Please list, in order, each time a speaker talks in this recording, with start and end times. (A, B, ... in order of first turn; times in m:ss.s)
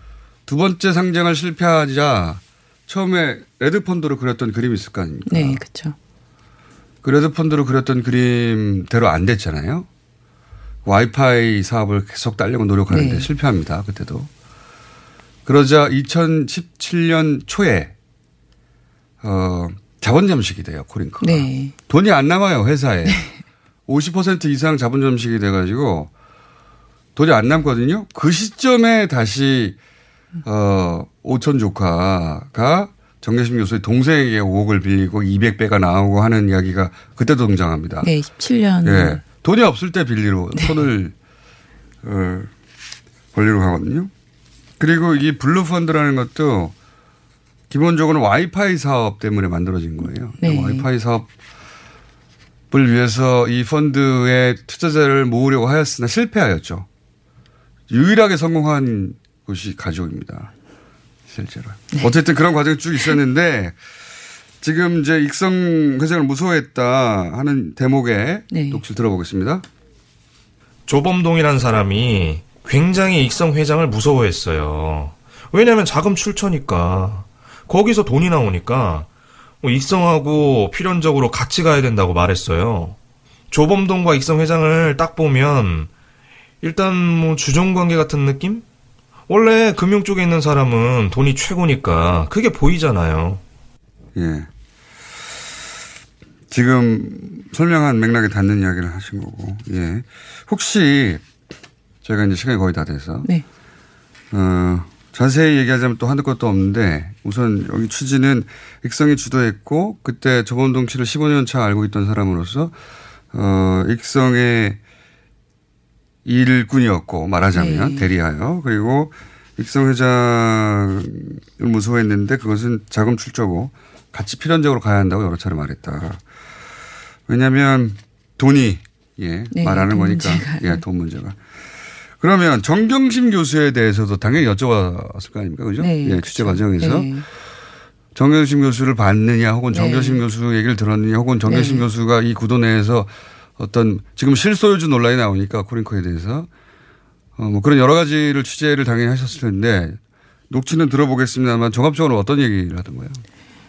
0:00.5-0:05.6 A
0:05.3-0:06.0 B
0:07.0-0:09.9 A
0:10.8-0:14.3 A
0:12.9-0:13.3 B
0:15.5-0:17.9 A
0:19.2-0:23.2 A
0:21.2-0:21.8 B
0:23.1-0:23.4 B
0:23.9-0:26.1 A
0:27.2-0:29.8 A
0:30.4-0:38.1 A
0:38.0-0:39.2 B
0:38.8-0:41.1 A
0:40.6-0:40.9 B
0:42.0-0:42.5 A
0:43.3-0:44.1 A
0:44.8-0:46.7 A
0:47.7-0:51.3 A
0:50.3-0:50.9 B
0:52.7-0:56.9 A
0:57.9-1:00.5 A
1:01.3-1:03.8 A
1:04.6-1:09.6 A
1:08.5-1:08.8 B
1:10.9-1:19.1 C
1:19.6-1:23.0 C
1:23.5-1:25.9 C
1:26.6-1:28.6 C
1:29.3-1:33.4 C
1:34.2-1:34.5 A
1:36.5-1:41.2 A
1:42.0-1:43.3 A
1:44.3-1:52.7 A
1:53.3-1:54.8 A
1:56.2-2:06.2 A
1:57.5-1:58.1 B
2:07.3-2:11.4 A
2:09.5-2:10.8 B
2:12.2-2:17.2 A
2:15.8-2:17.2 B
2:18.2-2:26.5 A
2:19.7-2:20.2 B
2:21.4-2:21.9 B
2:27.4-2:30.0 A
2:30.5-2:33.2 A